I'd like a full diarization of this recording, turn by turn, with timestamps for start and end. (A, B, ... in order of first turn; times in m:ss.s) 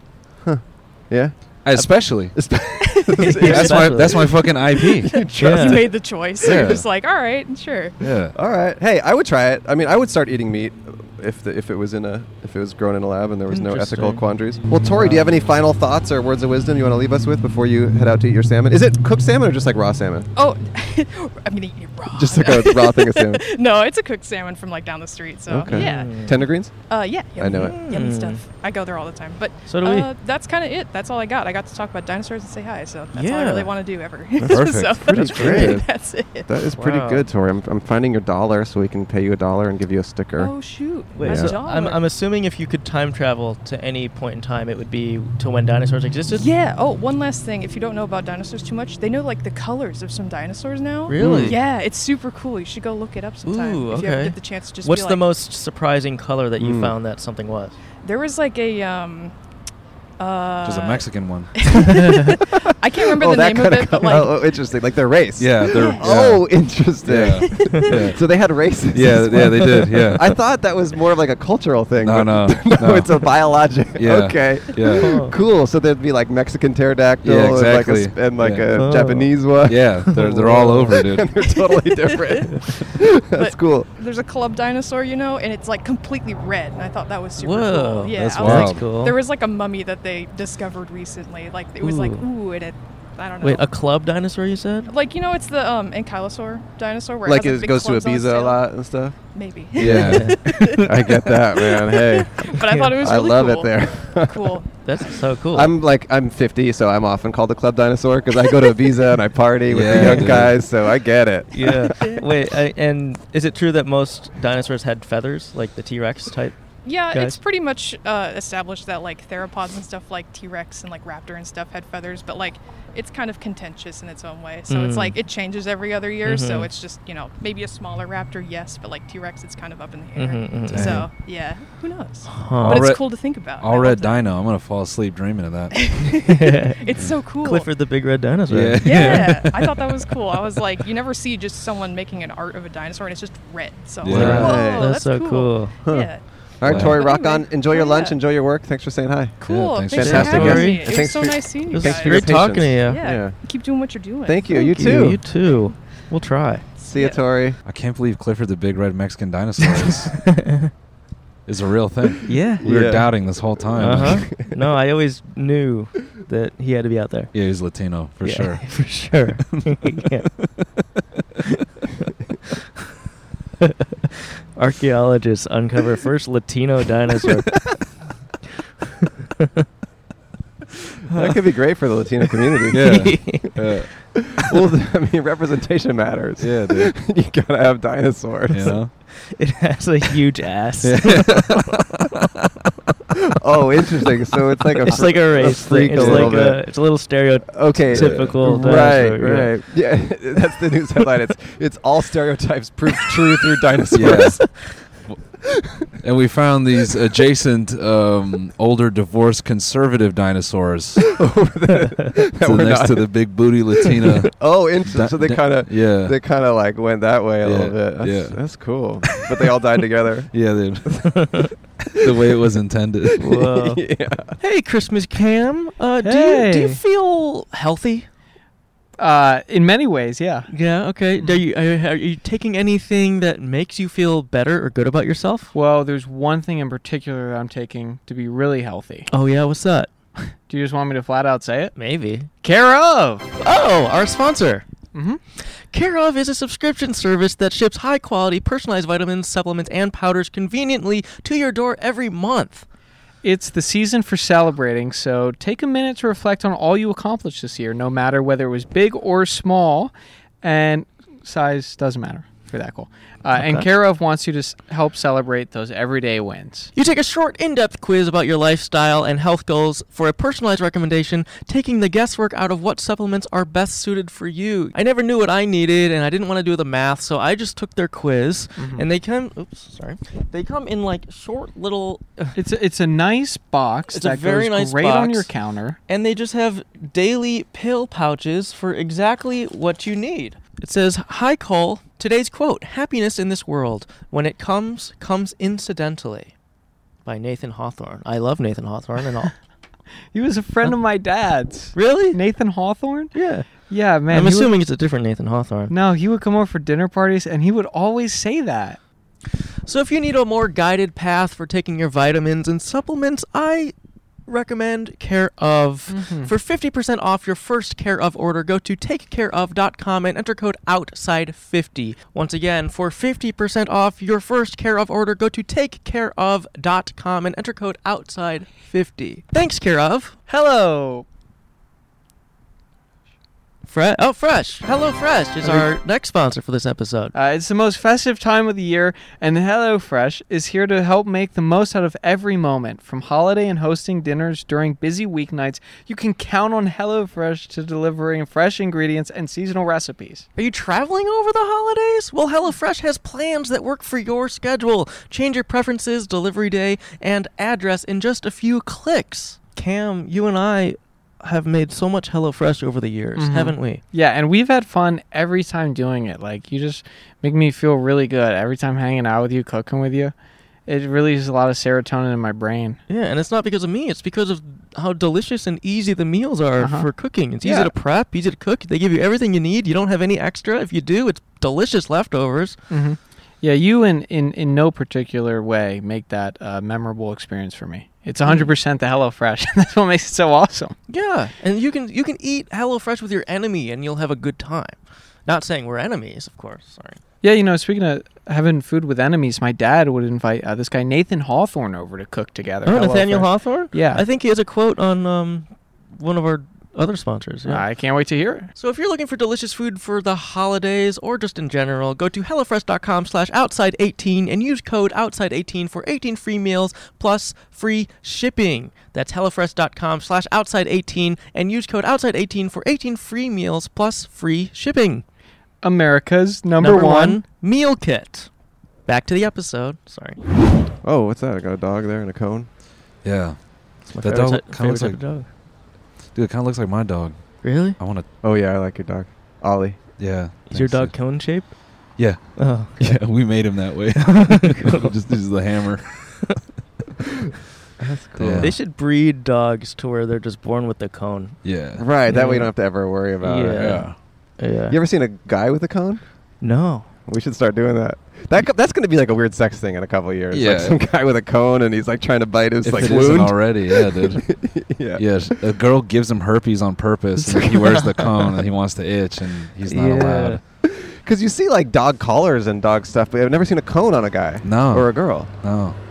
0:00.4-0:04.3 A
0:01.6-0:02.4 B
0:03.2-0:04.2 C
0:03.5-0:05.1 B
0:05.0-0:07.9 D
0:05.0-0:05.9 A
0:05.4-0:05.8 C
0:06.4-0:06.8 B
0:08.0-0:08.3 B
0:08.3-0:20.3 A
0:13.5-0:15.3 C
0:20.3-0:36.5 D
0:22.1-0:23.4 A
0:25.5-0:26.7 A
0:25.6-0:26.4 C
0:27.4-0:27.8 A
0:27.6-0:28.4 C
0:29.7-0:30.1 C
0:33.1-0:33.7 C
0:34.4-0:35.9 A
0:34.5-0:35.3 B
0:35.2-0:35.8 C
0:36.5-0:40.5 A
0:36.7-0:37.3 C
0:40.4-0:42.0 D
0:41.1-0:46.4 C
0:41.2-0:41.5 A
0:46.3-0:55.2 D
0:51.1-0:51.6 C
0:51.2-0:51.6 A
0:53.4-0:57.8 C
0:56.6-0:56.9 A
0:58.0-0:59.3 D
1:00.2-1:04.4 D
1:00.6-1:01.6 B
1:02.4-1:23.9 A
1:05.4-1:06.5 B
1:05.6-1:06.0 D
1:07.0-1:08.2 B
1:07.5-1:07.8 D
1:08.9-1:10.3 B
1:12.0-1:13.3 B
1:13.9-1:15.1 B
1:15.0-1:15.4 C
1:17.2-1:18.7 B
1:18.7-1:19.6 C
1:19.6-1:21.3 B
1:20.2-1:20.9 C
1:21.8-1:33.7 D
1:27.4-1:29.2 C
1:28.1-1:28.8 B
1:31.8-1:32.2 C
1:33.4-1:34.9 C
1:34.9-1:38.6 D
1:37.2-1:39.2 A
1:39.3-1:44.7 D
1:39.8-1:44.6 A
1:39.8-1:40.4 B
1:39.9-1:40.8 C
1:42.7-1:43.0 C
1:44.8-1:45.7 C
1:45.5-1:52.0 A
1:49.7-1:50.6 B
1:49.9-1:50.3 C
1:51.5-1:56.6 C
1:52.0-1:52.2 D
1:56.8-2:14.3 D
1:57.1-1:57.4 C
2:04.7-2:05.2 C
2:06.2-2:06.7 C
2:10.2-2:11.0 C
2:10.7-2:11.1 B
2:12.3-2:12.8 C
2:12.6-2:15.9 B
2:15.7-2:17.7 D
2:16.2-2:16.8 C
2:17.4-2:19.3 C
2:18.5-2:19.8 B
2:18.8-2:28.2 D
2:24.0-2:24.6 B
2:24.1-2:24.9 A
2:24.1-2:25.7 C
2:25.8-2:29.4 A
2:26.6-2:27.0 B
2:29.4-2:35.2 D
2:29.4-2:30.7 B
2:29.9-2:33.4 A
2:29.9-2:31.0 C
2:31.7-2:33.0 C
2:34.2-2:35.2 A
2:34.5-2:36.6 C
2:36.8-2:37.2 D
2:36.8-2:37.6 A
2:37.6-2:40.2 B
2:39.8-2:40.7 C
2:41.4-2:44.3 B
2:42.2-2:42.6 C
2:42.6-2:44.5 A
2:43.8-2:47.3 C
2:47.3-2:48.9 B
2:48.2-2:50.3 C
2:54.5-2:57.6 C
2:59.4-2:59.6 C
3:01.1-3:01.4 C
3:01.1-3:03.4 A
3:02.7-3:03.5 C
3:02.7-3:04.1 B
3:04.3-3:08.8 A
3:06.4-3:06.9 B
3:08.5-3:08.9 B
3:09.1-3:11.6 C
3:10.8-3:11.8 B
3:13.4-3:16.6 A
3:14.8-3:19.5 C
3:15.9-3:16.5 B
3:17.5-3:24.6 A
3:17.9-3:18.4 B
3:23.9-3:24.5 B
3:26.0-3:31.1 B
3:31.0-3:33.1 A
3:32.4-3:36.2 B
3:34.3-3:40.3 A
3:37.4-3:38.4 B
3:40.3-3:41.4 B
3:41.1-3:41.5 C
3:41.9-3:43.3 B
3:43.2-3:43.8 C
3:43.3-3:44.3 A
3:44.4-3:48.1 C
3:46.0-3:46.8 E
3:49.0-3:50.5 E
3:50.5-3:55.5 C
3:55.5-3:59.1 E
3:59.1-3:59.9 C
4:00.2-4:01.7 E
4:01.7-4:02.3 C
4:02.4-4:03.3 E
4:03.4-4:04.6 C
4:04.9-4:05.2 E
4:05.4-4:12.6 C
4:13.2-4:26.7 E
4:23.3-4:23.6 C
4:26.7-4:42.4 C
4:38.6-4:38.9 E
4:42.4-4:45.8 E
4:43.9-4:45.3 C
4:45.9-4:56.3 C
4:57.0-4:59.3 C
5:00.1-5:04.6 E
5:01.7-5:02.2 C
5:03.1-5:03.5 C
5:04.1-5:05.7 C
5:05.7-5:08.8 E
5:09.6-5:13.7 C
5:14.2-5:30.2 C
5:15.9-5:16.3 E
5:30.3-5:31.0 E
5:33.6-5:37.1 C
5:35.4-5:35.7 E
5:37.1-5:50.2 E
5:50.4-6:03.8 C
6:03.2-6:10.1 E
6:10.6-6:12.8 E
6:12.9-6:22.6 C
6:16.6-6:17.7 E
6:22.7-6:30.7 E
6:28.2-6:28.5 C
6:30.9-6:37.0 C
6:37.2-6:44.0 E
6:42.6-6:47.6 C
6:47.4-6:48.5 E
6:48.5-7:05.0 C
7:05.6-7:07.2 E
7:06.6-7:08.3 C
7:08.8-7:10.2 C
7:10.8-7:12.5 A
7:13.0-7:15.0 B
7:13.9-7:15.3 C
7:16.1-7:18.0 B
7:17.4-7:17.8 C
7:18.2-7:19.8 A
7:20.0-7:21.1 B
7:20.5-7:21.6 C
7:22.0-7:26.4 B
7:22.4-7:22.9 C
7:24.1-7:24.9 C
7:27.8-7:28.5 A
7:28.2-7:28.6 B
7:28.4-7:31.4 C
7:31.4-7:31.8 B
7:31.8-7:33.9 A
7:32.1-7:32.5 C
7:33.2-7:34.8 C
7:33.6-7:33.9 B
7:34.7-7:36.0 A
7:36.4-7:36.9 C
7:37.0-7:45.2 A
7:40.3-7:40.8 B
7:42.6-7:44.4 B
7:45.0-7:50.4 B
7:47.4-7:48.1 C
7:49.7-7:50.4 C
7:50.6-7:55.3 A
7:54.4-7:55.8 B